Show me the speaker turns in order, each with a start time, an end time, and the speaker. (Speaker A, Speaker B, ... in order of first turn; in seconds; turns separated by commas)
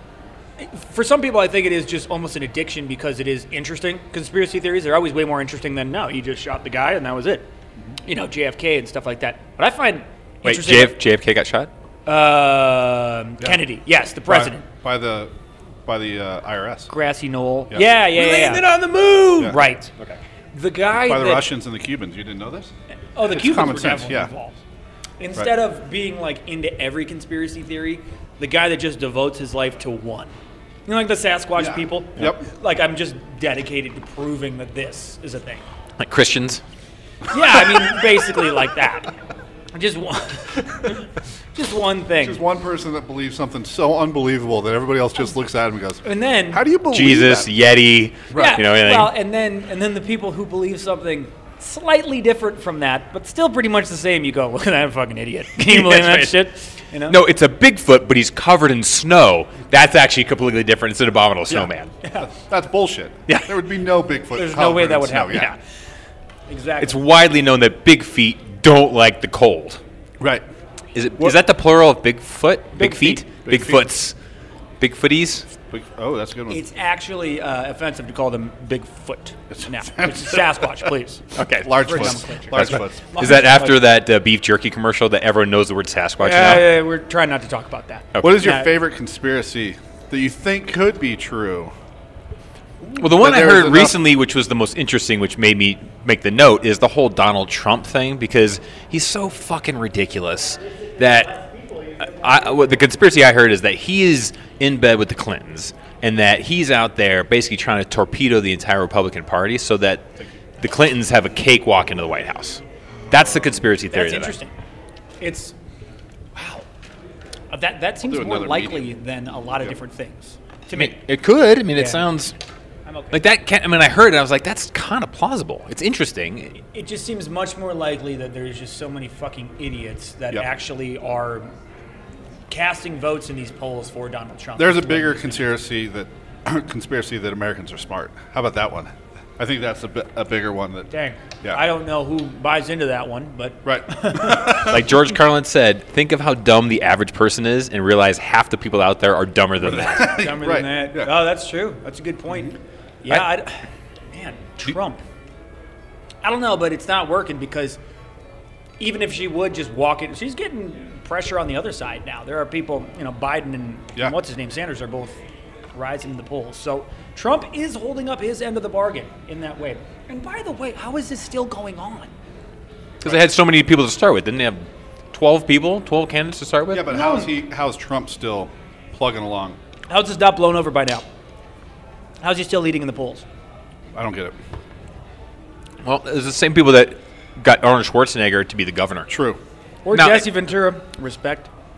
Speaker A: 0.6-7.5, Speaker A: 8.0-11.0, Speaker B: 10.4-11.7, Speaker A: 12.1-14.6, Speaker C: 14.3-15.3, Speaker C: 15.8-16.9, Speaker A: 16.9-18.7, Speaker C: 17.7-17.9, Speaker B: 18.1-20.2, Speaker A: 19.4-19.9, Speaker A: 20.5-21.5, Speaker C: 21.0-22.7, Speaker A: 23.1-24.6, Speaker C: 23.3-24.3, Speaker A: 25.2-30.3, Speaker A: 30.9-35.6, Speaker C: 31.6-32.4, Speaker B: 36.0-36.6, Speaker A: 37.3-39.1, Speaker A: 39.7-42.4, Speaker C: 42.2-47.5, Speaker A: 46.0-46.6, Speaker B: 46.9-49.1, Speaker A: 48.3-57.2, Speaker B: 55.6-56.4, Speaker B: 57.1-61.9, Speaker A: 62.0-62.3, Speaker C: 62.2-65.5, Speaker B: 63.3-63.5, Speaker A: 64.3-65.6, Speaker A: 66.5-67.0, Speaker B: 66.8-69.8, Speaker C: 70.2-70.4, Speaker B: 70.9-74.1, Speaker A: 72.8-73.2, Speaker C: 73.5-73.8, Speaker B: 74.8-75.5, Speaker C: 75.7-76.6, Speaker A: 76.5-81.2, Speaker C: 79.5-80.7, Speaker B: 81.3-86.7, Speaker C: 81.6-83.0, Speaker A: 81.8-83.8, Speaker A: 86.2-88.7, Speaker B: 88.1-88.4, Speaker C: 88.2-91.7, Speaker B: 93.0-101.3, Speaker C: 93.0-94.0, Speaker B: 102.0-110.1, Speaker B: 110.6-114.3, Speaker A: 113.9-114.5, Speaker A: 115.2-115.5, Speaker A: 116.3-116.7, Speaker A: 117.5-120.9, Speaker C: 118.0-118.9, Speaker B: 120.7-122.3, Speaker A: 121.7-122.0, Speaker A: 122.8-123.3, Speaker B: 123.1-126.6, Speaker A: 126.7-131.5, Speaker A: 132.5-135.5, Speaker C: 134.6-140.9, Speaker A: 140.9-144.8, Speaker C: 143.6-144.8, Speaker B: 144.6-150.2, Speaker C: 149.6-151.1, Speaker A: 150.0-155.0, Speaker A: 156.2-157.8, Speaker A: 158.8-165.2, Speaker A: 165.7-172.1, Speaker B: 173.0-176.9, Speaker C: 176.7-179.6, Speaker A: 176.9-177.3, Speaker A: 179.9-181.1, Speaker A: 182.2-183.2, Speaker C: 183.9-184.3, Speaker B: 185.8-189.1, Speaker C: 189.1-189.4, Speaker A: 189.8-191.5, Speaker B: 189.9-190.3